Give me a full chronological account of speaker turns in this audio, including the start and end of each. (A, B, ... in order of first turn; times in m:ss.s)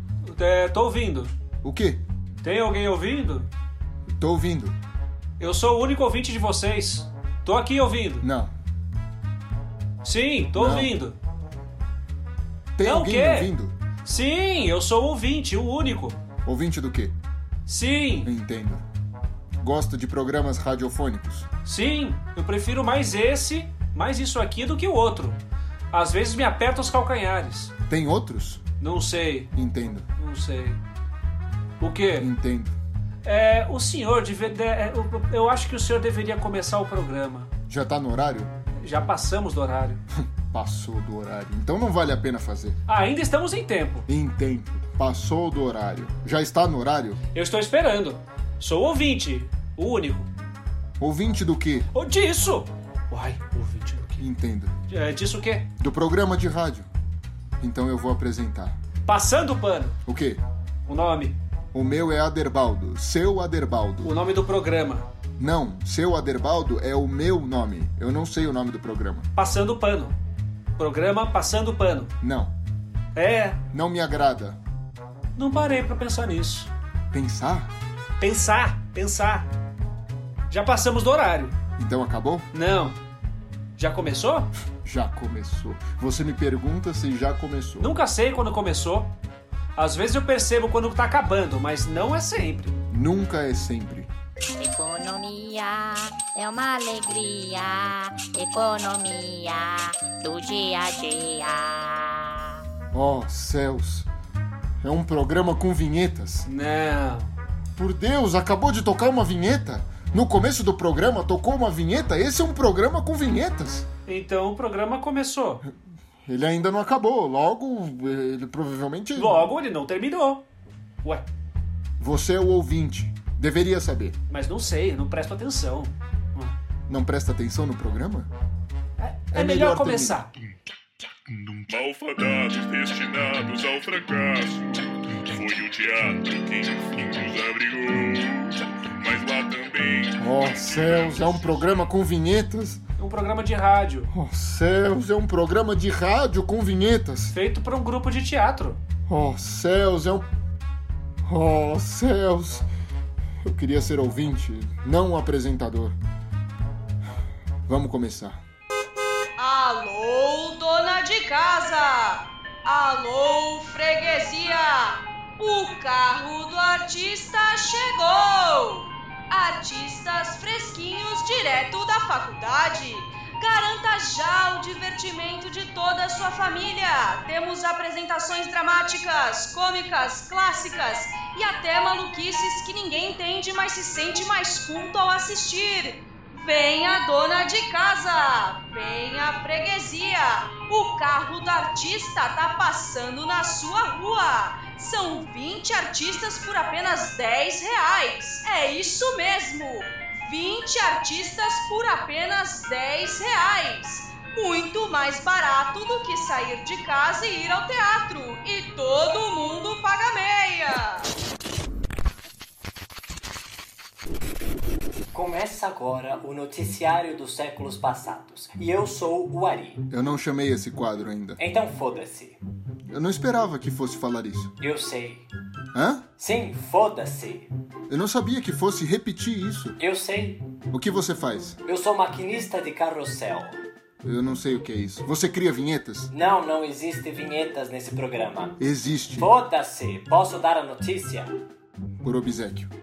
0:00.2-0:01.3 A
0:01.6-0:02.0 B
0:02.4-0:03.5 A
0:04.1-0:04.8 B
0:05.4-0:08.3 A
0:08.2-0:08.5 B
0:10.0-0:11.2 A
0:10.5-0:11.0 B
0:12.8-0:13.7 B
0:12.8-0:13.5 A
0:14.0-0:16.2 A
0:16.4-0:17.1 B
0:17.6-0:18.3 A
0:18.2-0:18.8 B
0:19.6-0:21.5 B
0:21.6-0:25.4 A
0:25.9-0:27.7 A
0:27.9-0:28.6 B
0:28.8-0:29.5 A
0:29.5-0:30.0 B
0:30.2-0:30.8 A
0:31.8-0:32.3 A
0:32.2-0:32.8 B
0:33.2-0:37.5 A
0:37.7-0:38.5 B
0:38.8-0:40.0 A
0:40.3-0:42.8 B
0:42.9-0:44.1 A
0:44.1-0:47.2 B
0:47.3-0:50.3 A
0:51.0-0:51.9 B
0:51.9-0:54.2 A
0:54.2-0:54.7 B
0:54.9-0:55.7 A
0:55.8-0:56.9 B
0:57.6-0:58.8 B
0:59.0-1:00.0 A
1:00.0-1:00.4 B
1:00.8-1:01.4 A
1:01.7-1:04.2 B
1:04.0-1:05.1 A
1:05.4-1:09.3 B
1:09.4-1:10.2 A
1:10.8-1:12.1 A
1:12.2-1:12.5 B
1:13.1-1:13.6 A
1:13.7-1:14.6 B
1:15.4-1:16.7 A
1:17.1-1:17.7 B
1:18.2-1:19.5 A
1:20.5-1:21.5 A
1:21.8-1:22.5 B
1:22.5-1:23.0 A
1:23.8-1:24.5 A
1:24.8-1:28.0 B
1:27.8-1:29.1 A
1:29.8-1:32.8 A
1:32.9-1:34.1 B
1:34.6-1:42.4 C
1:42.9-1:44.1 B
1:44.8-1:46.5 B
1:46.4-1:47.3 A
1:47.8-1:53.9 B
1:54.0-1:55.6 A
1:56.2-1:59.4 B
1:59.1-2:00.4 A
2:02.0-2:04.2 B
2:04.3-2:06.6 A
2:06.9-2:08.3 B
2:09.0-2:10.3 A
2:09.3-2:10.2 B
2:11.6-2:21.3 D
2:20.2-2:22.8 B
2:23.0-2:24.1 A
2:24.1-2:27.4 B
2:27.3-2:28.8 A
2:29.1-2:30.3 B
2:31.2-2:32.7 B
2:33.4-2:36.0 B
2:37.7-2:38.4 B
2:39.4-3:31.1 E
3:35.1-3:39.8 F
3:39.9-3:41.4 B
3:41.4-3:42.4 F
3:42.9-3:44.5 B
3:44.6-3:45.3 F
3:45.7-3:46.0 B
3:46.2-3:47.5 F
3:47.9-3:49.8 B
3:49.8-3:50.5 F
3:50.7-3:51.6 B
3:51.6-3:53.6 F
3:54.0-3:56.1 B
3:56.1-3:58.6 F
3:58.6-3:59.3 B
3:59.2-4:01.3 F
4:02.0-4:02.7 B